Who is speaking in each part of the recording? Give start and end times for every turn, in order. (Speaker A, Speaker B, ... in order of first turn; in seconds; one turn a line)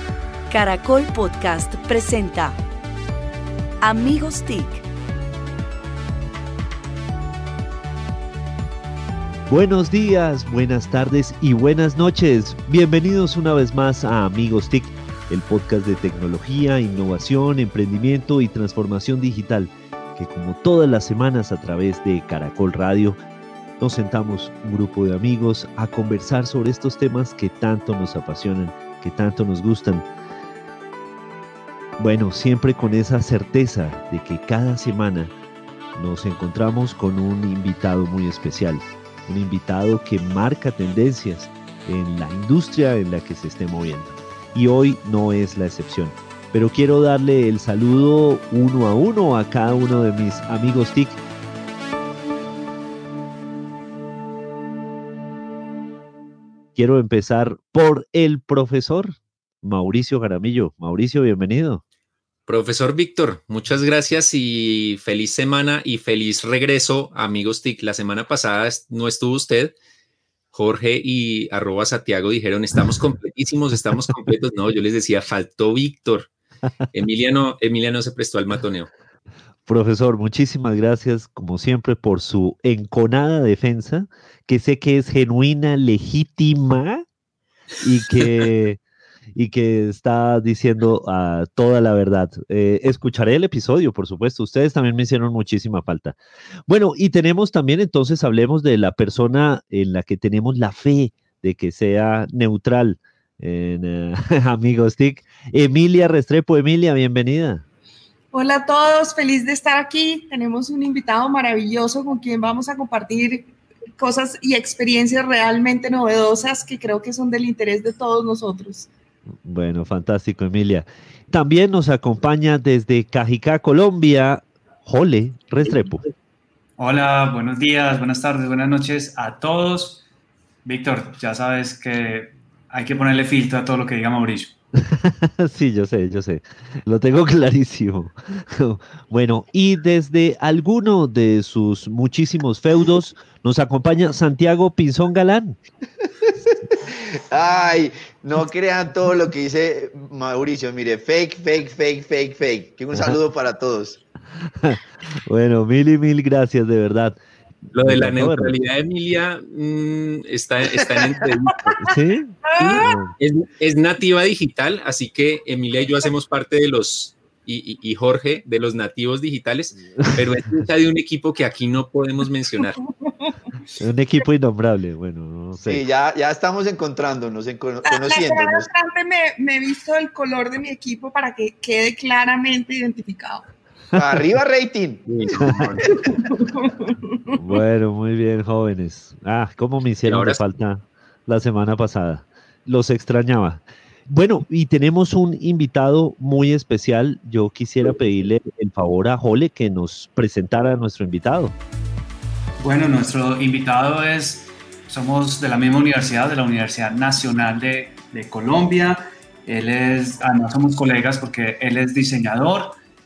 Speaker A: 0.5-2.6
Speaker A: 3.8-4.8
Speaker B: 9.5-23.2
Speaker B: 23.8-30.1
Speaker B: 32.0-35.3
Speaker B: 36.0-51.2
Speaker B: 56.8-61.8
Speaker C: 62.5-69.8
Speaker C: 70.5-76.3
Speaker C: 76.9-78.9
Speaker B: 79.7-87.0
Speaker B: 87.8-88.8
Speaker B: 89.3-96.2
Speaker B: 96.7-107.7
Speaker D: 108.3-118.9
Speaker B: 119.5-126.1
Speaker E: 126.8-130.0
Speaker E: 130.7-134.5
Speaker B: 134.8-145.6
Speaker F: 146.5-154.0
Speaker B: 154.4-157.2
Speaker C: 157.7-161.7
Speaker B: 157.8-158.6
Speaker B: 161.8-163.1
Speaker C: 162.6-172.8
Speaker D: 173.1-173.3
Speaker B: 173.8-175.8
Speaker F: 175.6-178.7
Speaker D: 177.9-183.4
Speaker F: 183.9-186.0
Speaker C: 185.1-185.8
Speaker B: 185.3-185.8
Speaker D: 186.0-187.4
Speaker B: 187.3-201.6
Speaker C: 190.1-190.4
Speaker E: 202.6-212.8